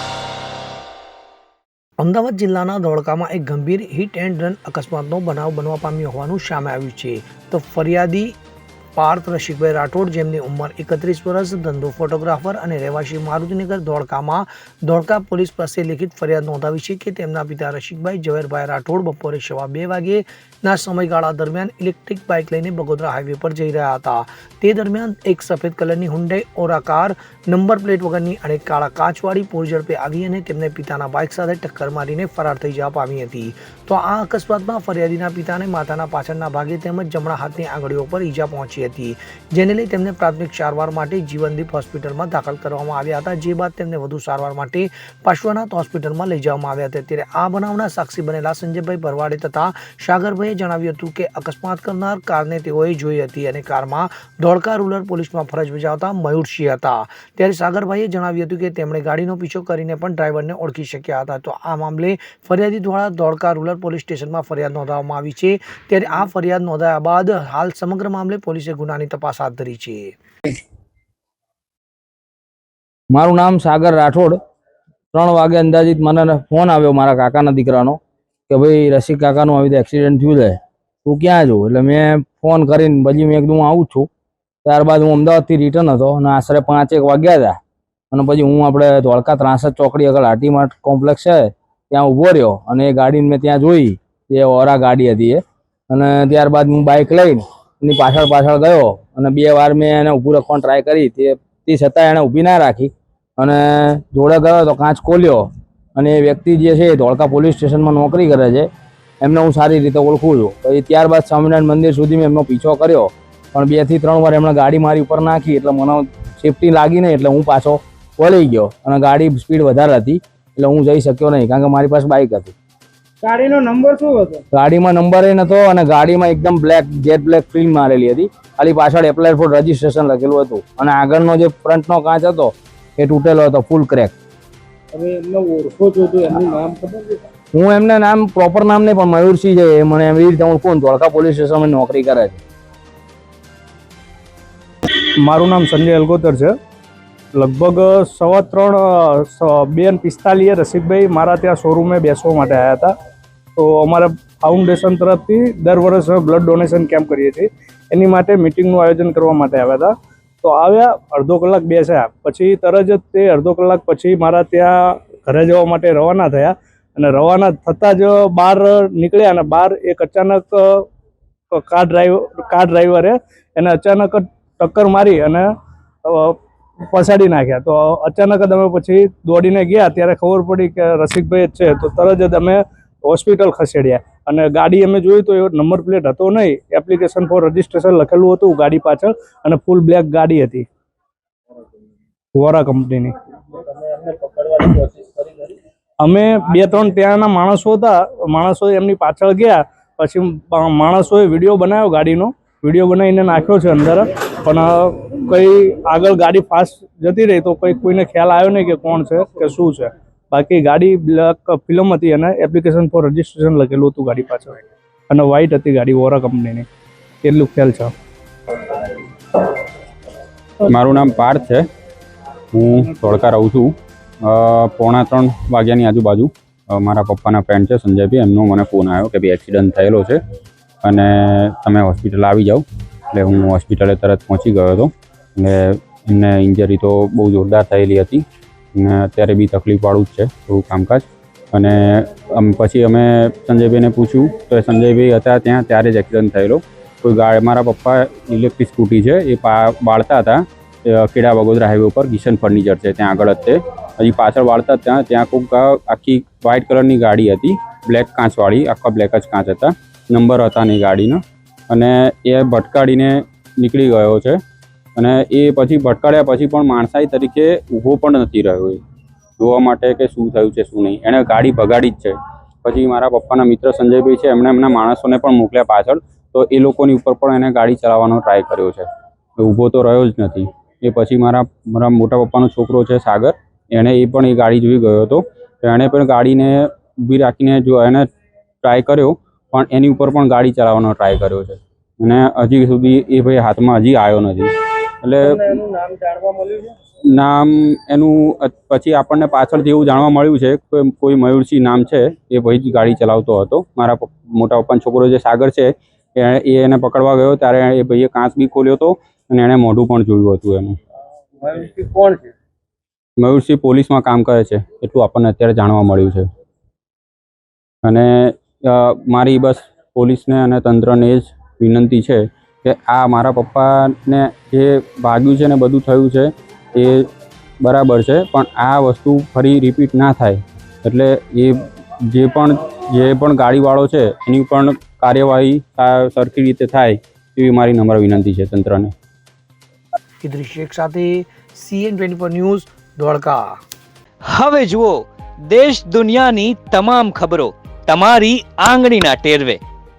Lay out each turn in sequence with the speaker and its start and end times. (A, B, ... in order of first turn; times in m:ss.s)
0:02.0-0:08.3 A
0:09.0-1:10.2 A
1:13.1-1:14.4 B
1:15.1-1:24.1 B
1:24.6-1:27.6 B
1:28.1-1:48.7 B
1:49.2-2:02.6 B
2:03.2-2:04.4 C
2:04.5-2:14.2 B
2:14.9-2:17.2 C
2:17.6-2:22.4 B
2:25.2-2:26.5 D
2:27.4-2:32.9 D
2:33.6-2:50.9 D
2:51.5-2:55.5 D
2:56.0-2:56.4 D
2:56.9-3:10.7 D
3:12.4-3:13.1 D
3:13.5-3:15.6 C
3:16.0-3:36.7 D
3:37.2-3:37.9 D
3:40.6-3:41.6 E
3:42.5-3:50.2 E
3:50.8-3:58.2 E
3:58.8-4:24.4 E
4:25.0-4:28.8 E
4:29.4-4:38.9 E
4:39.4-4:48.1 E
4:48.6-4:54.5 E
4:55.0-4:55.6 E
4:55.6-4:56.7 C
4:57.2-5:10.8 E
5:11.4-5:12.2 C
5:13.2-5:16.3 E
5:17.8-5:27.1 E
5:27.6-5:38.9 E
5:40.2-5:43.5 A
5:44.3-5:49.6 F